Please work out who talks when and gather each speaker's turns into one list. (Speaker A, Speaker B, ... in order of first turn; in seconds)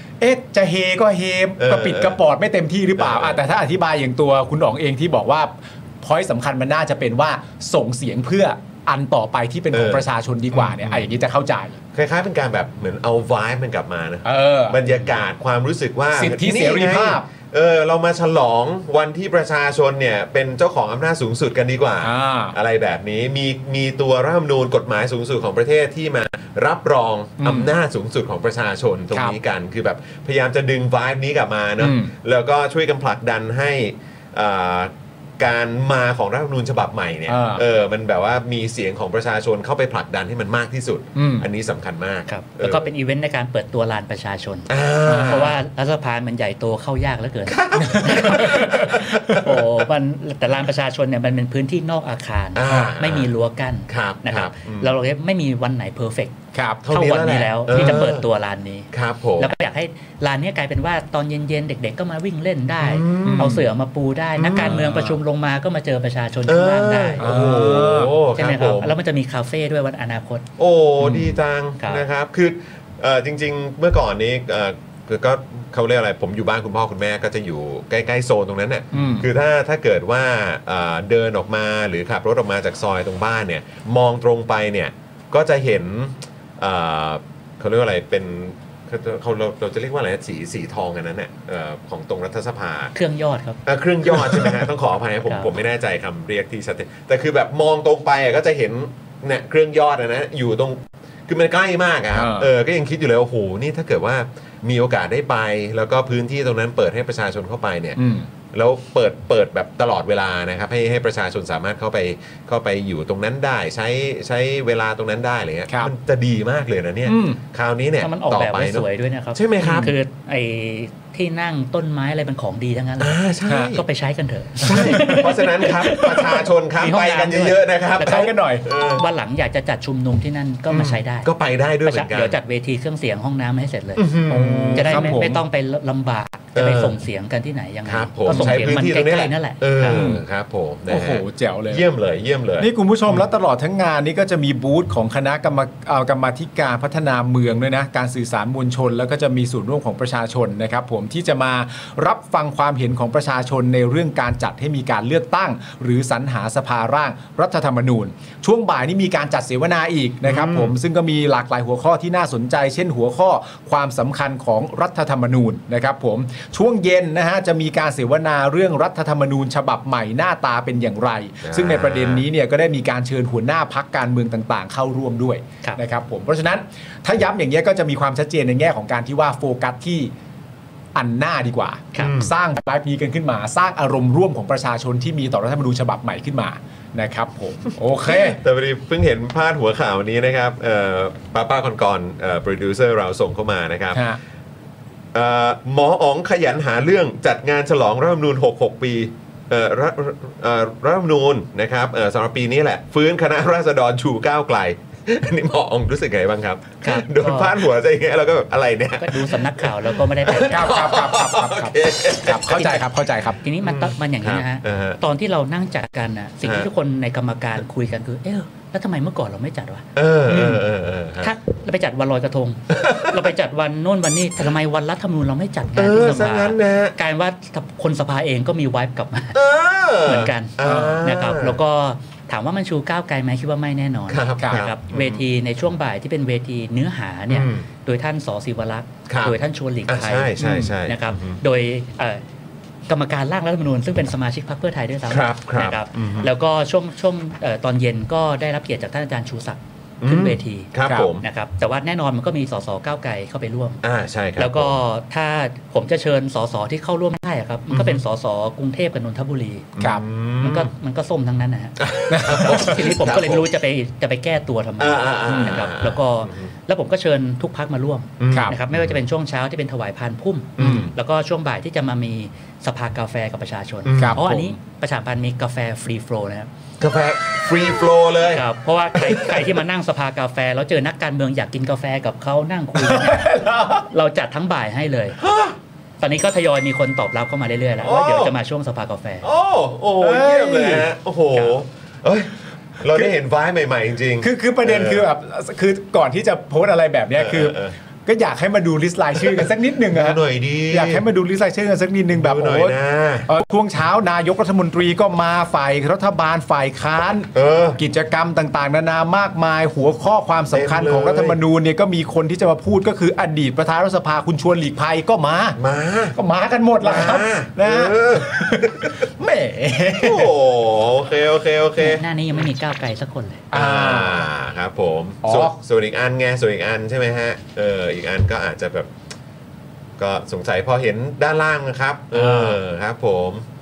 Speaker A: 0.2-11.8, 14.2-15.0, 16.1-17.3, 22.0-22.6, 27.4-27.7, 31.8-32.1, 37.3-37.6, 41.2-41.5, 45.1-45.4, 47.7-49.4, 52.7-52.9, 56.5-56.9, 63.2-63.6, 64.6-65.0, 67.2-68.2, 71.0-71.3, 78.9-79.3, 94.1-94.6, 102.1-102.5, 108.0-108.3, 117.1-117.4, 119.6-119.9, 123.5-123.8, 124.6-126.4, 128.0-128.7, 134.3-135.4, 138.3-138.6, 139.8-140.2, 140.9-141.8, 142.6-180.1, 180.9-188.4, 193.9-194.2, 210.4-213.4, 230.6-231.0, 240.4-240.7, 262.1-262.8, 265.3-265.6, 268.3-268.6, 270.6-270.9, 274.0-274.4, 282.8-283.9, 290.0-290.9, 294.2-315.6, 316.1-320.3, 323.5-324.2, 325.2-325.6, 332.1-332.6
Speaker B: 1.6-2.2, 3.0-3.4, 9.7-11.1, 11.9-42.9, 44.7-45.6, 47.5-49.9, 52.5-53.3, 53.9-55.0, 56.8-58.3, 58.9-59.5, 62.8-63.7, 64.4-65.1, 66.5-69.0, 70.6-93.0, 93.7-108.0, 108.5-119.9, 123.0-123.8, 124.6-129.1, 130.7-132.4, 134.0-135.2, 136.6-137.0, 137.9-143.2, 160.2-160.8, 171.4-172.3, 182.0-182.3, 188.1-194.1, 195.1-212.6, 213.6-215.0, 216.4-216.7, 220.0-221.3, 222.7-223.2, 225.8-226.9, 229.3-231.6, 234.1-235.2, 237.3-237.7, 239.1-241.4, 245.1-246.3, 250.0-251.2, 253.8-254.8, 257.7-258.0, 259.8-260.7, 261.8-263.5, 264.8-266.5, 268.2-269.0, 270.6-270.9, 273.9-274.4, 276.8-279.5, 285.2-285.6, 287.8-288.3, 289.2-295.1, 297.2-297.7, 299.2-301.1, 302.1-303.3, 307.3-307.8, 310.5-311.4, 315.6-316.2, 316.8-319.0, 320.0-322.0, 323.5-328.9, 330.0-333.5
Speaker C: 42.3-56.4, 56.9-67.2, 68.3-70.5, 93.0-93.6, 118.0-126.0, 126.8-128.2, 128.9-131.3, 131.8-134.1, 134.7-140.1, 206.8-207.5, 209.0-210.8, 212.5-220.6, 221.2-229.4, 230.1-242.2, 242.9-253.8, 254.4-259.8, 260.4-276.5, 278.3-283.4, 283.9-285.2, 286.0-289.3, 321.8-323.5